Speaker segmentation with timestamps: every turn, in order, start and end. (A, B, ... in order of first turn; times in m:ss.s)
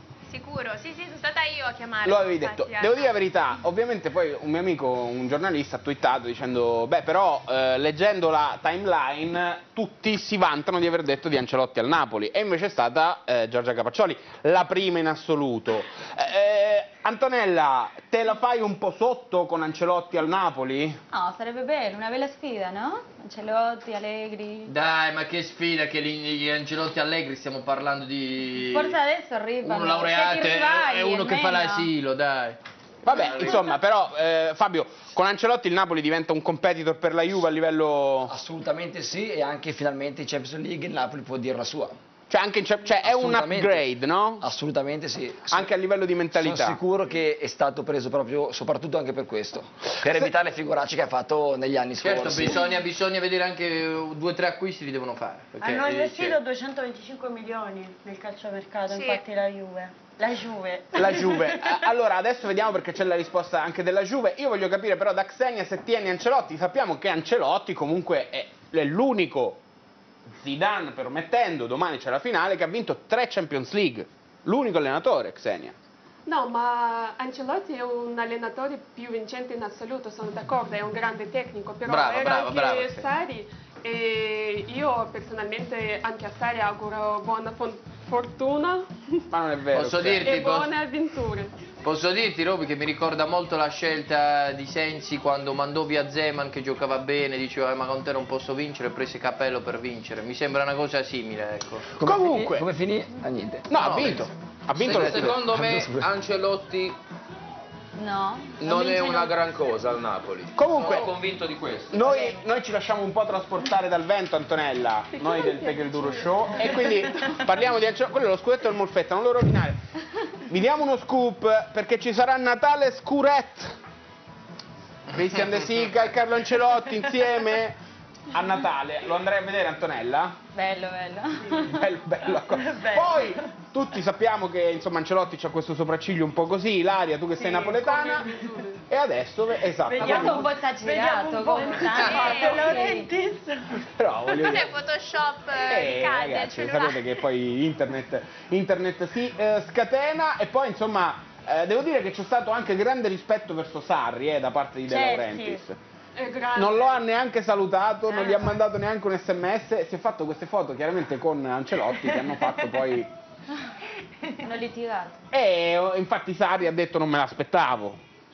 0:00.3-0:03.2 A
0:02.0-0:21.0 B
0:21.1-0:24.7 C
0:24.7-0:29.0 D
0:28.7-0:31.9 C
0:29.6-0:32.6 D
0:33.0-0:38.3 B
0:33.2-0:33.6 E
0:33.3-0:33.6 D
0:38.3-0:42.0 F
0:42.3-0:44.5 B
0:43.0-0:43.8 F
0:44.4-0:45.7 F
0:45.5-0:46.8 B
0:46.3-0:52.7 F
0:52.0-0:56.4 D
0:55.6-1:01.9 G
0:58.9-0:59.2 A
1:01.0-1:09.6 B
1:10.4-1:15.8 B
1:16.3-1:29.2 H
1:21.8-1:23.1 D
1:29.3-1:30.3 B
1:29.7-1:30.7 D
1:30.2-1:31.5 H
1:31.8-1:41.9 D
1:42.0-1:42.7 B
1:42.0-1:43.7 F
1:43.7-1:45.4 B
1:43.7-1:47.0 E
1:44.8-1:46.1 F
1:48.0-1:49.3 C
1:48.6-1:52.1 E
1:50.6-1:51.2 B
1:51.9-1:59.8 B
1:52.1-1:52.3 C
1:55.1-1:57.4 H
2:00.5-2:03.8 B
2:05.1-2:07.8 B
2:08.3-2:10.4 B
2:10.5-2:11.7 C
2:11.6-2:20.5 B
2:12.4-2:13.4 G
2:17.3-2:18.8 H
2:19.8-2:23.8 G
2:20.0-2:23.1 C
2:22.0-2:22.8 A
2:24.0-2:24.8 B
2:24.3-2:27.2 A
2:25.6-2:35.8 B
2:34.9-2:35.6 G
2:36.2-2:37.0 H
2:36.5-2:43.1 B
2:44.4-2:45.2 C
2:45.3-2:48.0 B